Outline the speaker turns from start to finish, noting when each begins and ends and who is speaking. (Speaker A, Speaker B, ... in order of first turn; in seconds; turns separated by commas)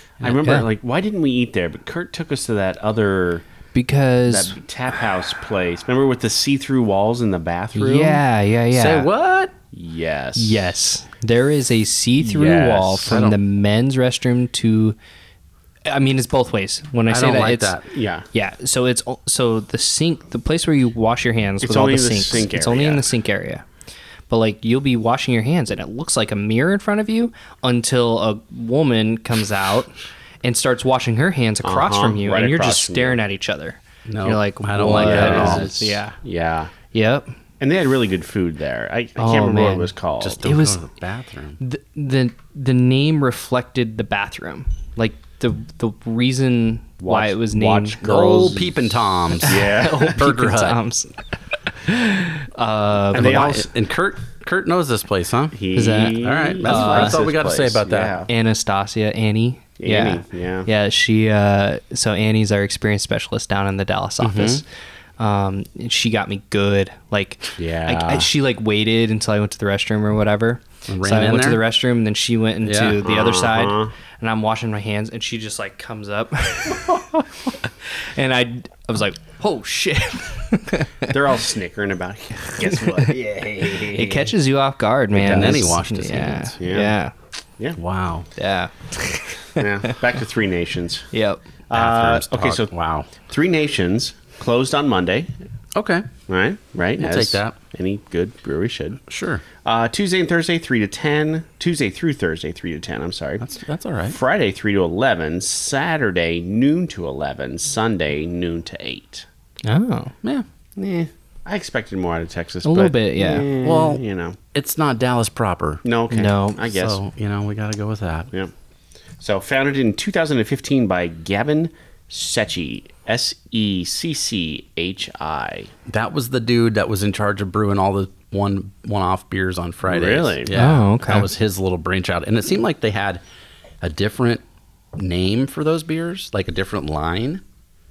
Speaker A: 0.2-3.4, Speaker B: 3.7-4.6, Speaker A: 4.3-8.2, Speaker B: 7.7-9.1, Speaker C: 8.7-9.5, Speaker A: 9.7-10.7, Speaker B: 10.3-15.0, Speaker C: 12.2-13.4, Speaker A: 12.4-12.9, Speaker B: 15.8-17.8, Speaker C: 17.1-17.9, Speaker A: 17.9-18.2, Speaker B: 18.3-23.6, Speaker A: 21.6-23.0, Speaker B: 24.3-36.2, Speaker A: 31.6-33.2, Speaker C: 34.0-35.8, Speaker A: 34.9-36.7, Speaker B: 36.9-37.3, Speaker A: 37.6-40.4, Speaker B: 39.2-40.8, Speaker C: 40.2-41.6, Speaker B: 41.6-48.5, Speaker A: 47.0-50.2, Speaker C: 48.0-50.8, Speaker B: 49.3-51.1, Speaker B: 51.7-53.6, Speaker A: 53.1-53.6, Speaker C: 53.1-55.5, Speaker A: 55.5-58.3, Speaker B: 55.7-57.2, Speaker C: 56.2-58.1, Speaker B: 58.3-64.6, Speaker A: 59.8-60.7, Speaker C: 64.2-64.6, Speaker B: 65.2-81.4, Speaker A: 67.6-68.3, Speaker C: 70.9-71.6, Speaker C: 72.6-73.0, Speaker A: 73.0-73.9, Speaker A: 81.0-84.3, Speaker B: 82.4-87.1, Speaker C: 85.2-86.5, Speaker A: 85.2-85.7, Speaker A: 86.6-87.0, Speaker C: 87.8-88.3, Speaker B: 88.3-90.0, Speaker A: 89.5-91.1, Speaker B: 91.1-91.4, Speaker A: 91.7-95.3, Speaker C: 91.7-93.1, Speaker C: 95.7-96.1, Speaker A: 96.3-99.0, Speaker C: 97.0-97.6, Speaker C: 99.1-99.4, Speaker A: 99.6-103.5, Speaker C: 103.4-104.2, Speaker A: 104.1-109.2, Speaker B: 109.6-110.1, Speaker A: 110.8-114.4, Speaker B: 112.6-113.5, Speaker C: 113.6-114.0, Speaker C: 114.5-115.8, Speaker A: 115.8-117.0, Speaker B: 116.1-116.7, Speaker C: 116.6-118.3, Speaker A: 119.2-125.7, Speaker C: 125.9-133.2, Speaker A: 129.8-130.5, Speaker B: 130.5-131.3, Speaker C: 133.8-134.4, Speaker C: 134.9-137.4